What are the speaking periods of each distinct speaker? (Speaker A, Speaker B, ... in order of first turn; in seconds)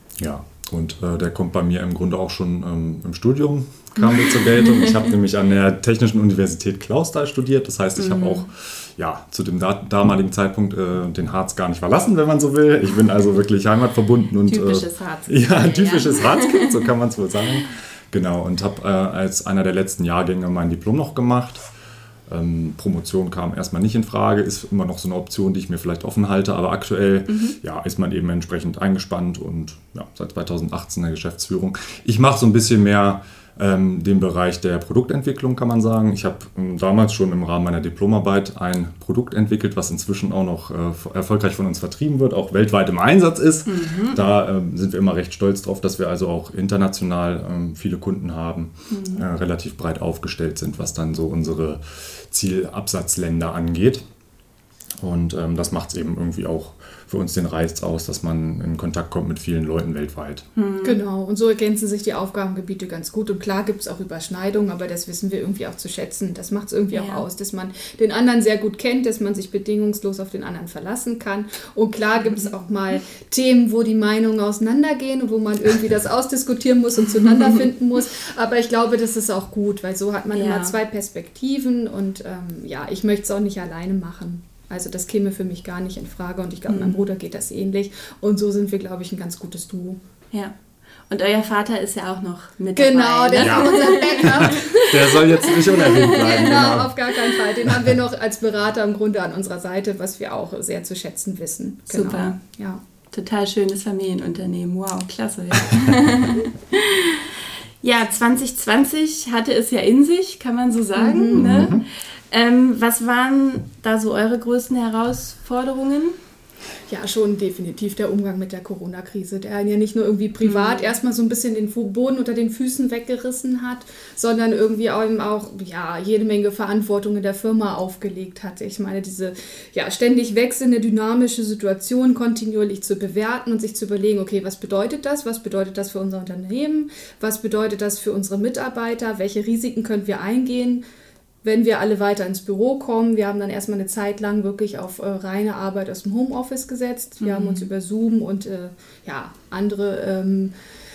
Speaker A: 0.2-21.7, 22.3-54.0, 55.0-60.5, 93.4-96.9, 97.7-97.9, 111.4-111.8
Speaker B: 8.0-8.5, 14.5-16.8, 27.3-27.6, 43.7-44.2, 48.9-49.3, 60.6-61.0, 66.9-67.3, 72.2-72.5, 77.2-77.7, 80.3-80.8, 86.7-87.0, 91.1-96.6, 101.9-102.4, 103.1-116.2, 120.5-120.9, 147.2-147.7
Speaker C: 60.8-90.0, 92.8-102.8, 111.0-111.7, 116.9-140.8, 141.4-150.5